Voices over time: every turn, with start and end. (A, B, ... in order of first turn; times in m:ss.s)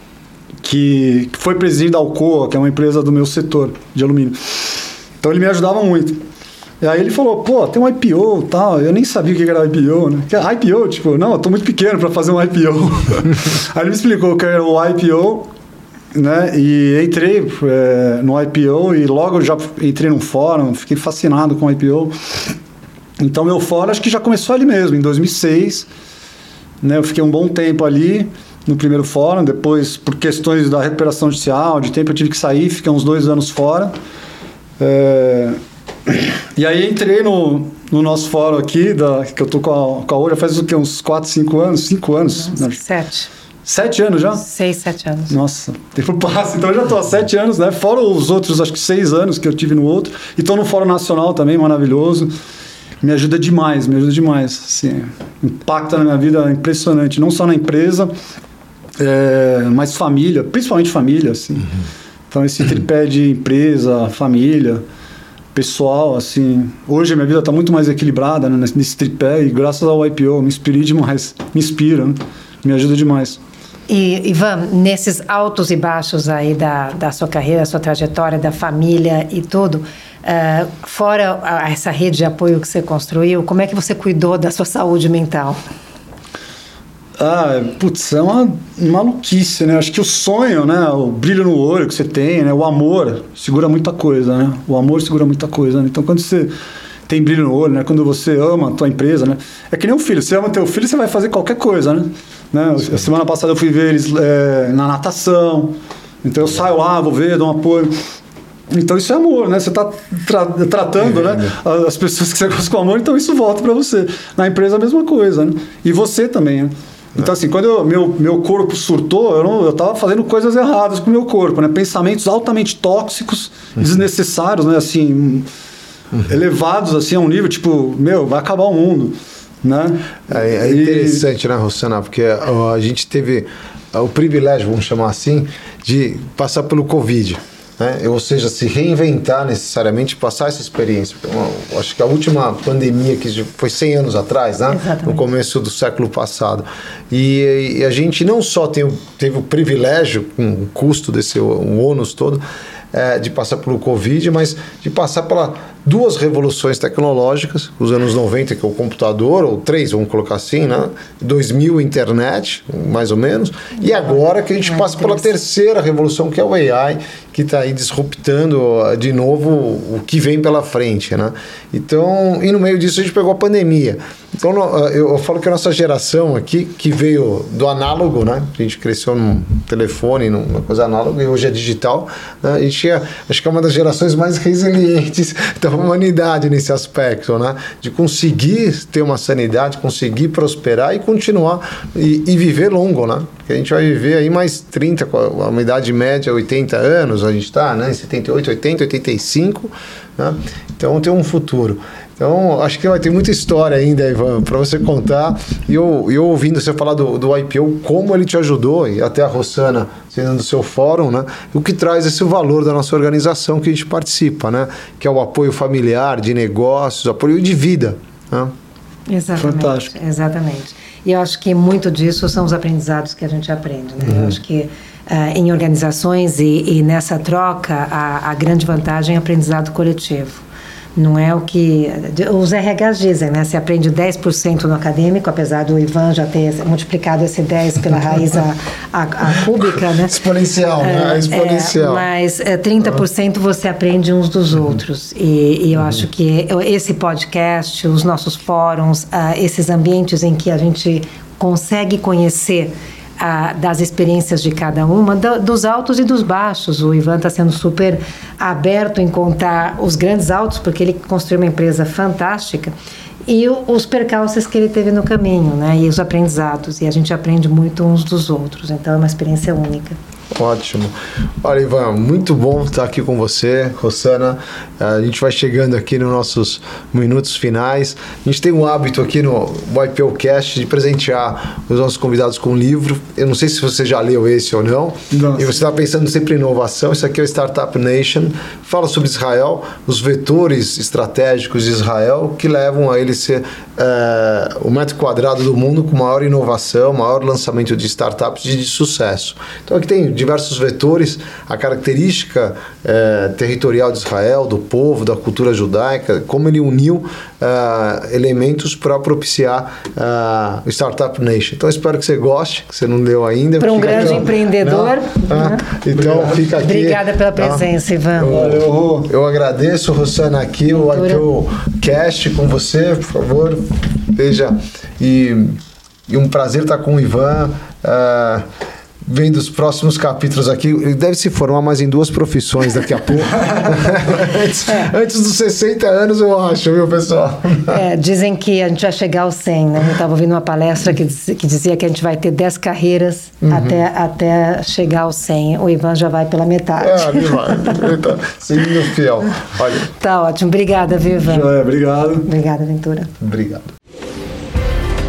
0:00.6-0:06.2 A
0:06.8-0:15.5 A
0:16.1-0:22.2 A
0:23.2-0:25.9 A
0:26.8-0:33.9 A
0:34.8-0:42.8 A
0:42.4-0:43.3 B
0:43.7-0:44.4 A
0:44.4-0:45.4 B
0:45.3-0:52.3 A
0:53.0-0:58.1 A
0:59.0-1:01.7 A
1:02.3-1:04.8 A
1:05.5-1:13.4 A
1:13.9-1:25.6 B
1:27.2-1:36.6 A
1:37.1-1:48.0 A
1:48.7-2:05.5 A
2:06.2-2:11.2 A
2:10.3-3:38.5 C
2:24.7-2:25.2 B
2:44.7-2:45.2 B
3:39.1-3:50.4 B
3:39.4-3:39.9 A
3:44.0-3:44.4 C
3:51.0-4:00.1 B
3:59.6-4:02.1 C
4:00.8-4:22.7 B
4:23.3-4:30.0 B
4:30.3-5:28.5 C
4:45.1-4:45.5 A
5:13.6-5:15.6 B
5:13.9-5:14.2 A
5:15.9-5:16.4 A
5:16.4-5:18.4 B
5:18.2-5:19.1 A
5:20.7-5:21.2 B
5:29.0-5:37.8 C
5:37.7-5:47.9 B
5:43.5-5:43.8 C
5:46.8-5:49.9 C
5:50.0-5:51.5 B
5:51.2-5:52.3 A
5:52.3-5:53.1 B
5:53.2-5:53.7 C